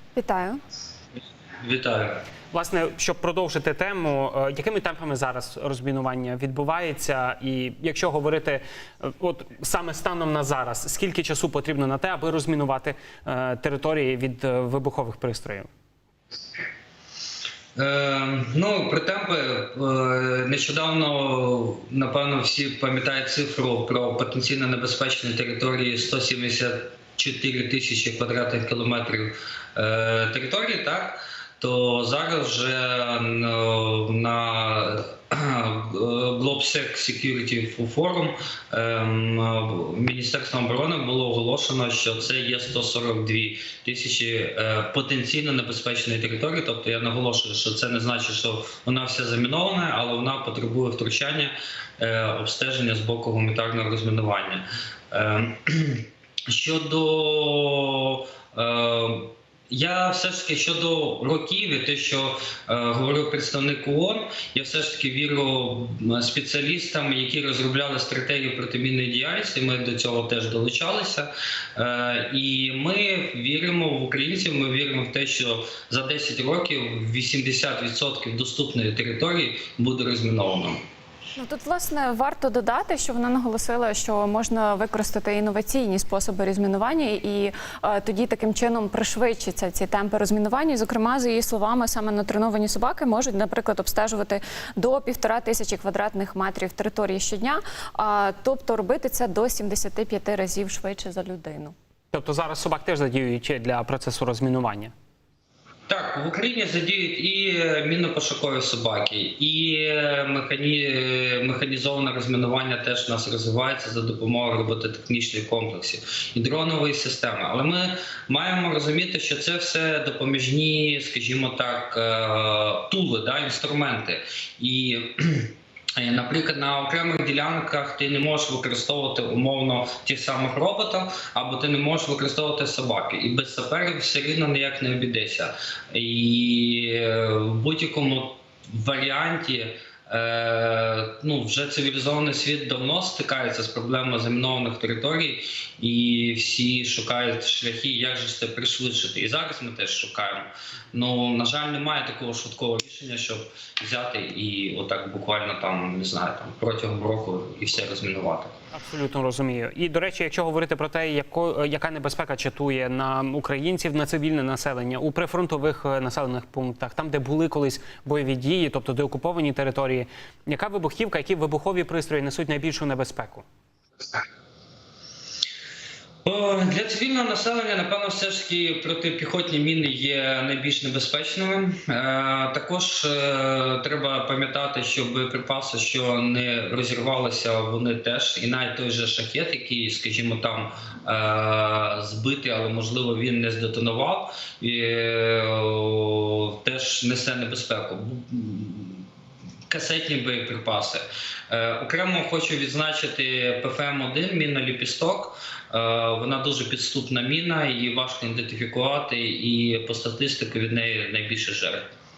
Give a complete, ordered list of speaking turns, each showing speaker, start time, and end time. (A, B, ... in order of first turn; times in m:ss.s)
0:00.1-0:00.6 A
0:01.6-0:02.2 B
0:02.5-0:15.7 C
0:17.8-1:20.8 B
1:21.4-1:41.7 A
1:42.1-1:44.9 C
1:45.9-2:38.5 B
2:38.7-2:53.4 C
2:56.2-3:19.1 B
3:19.7-3:31.9 B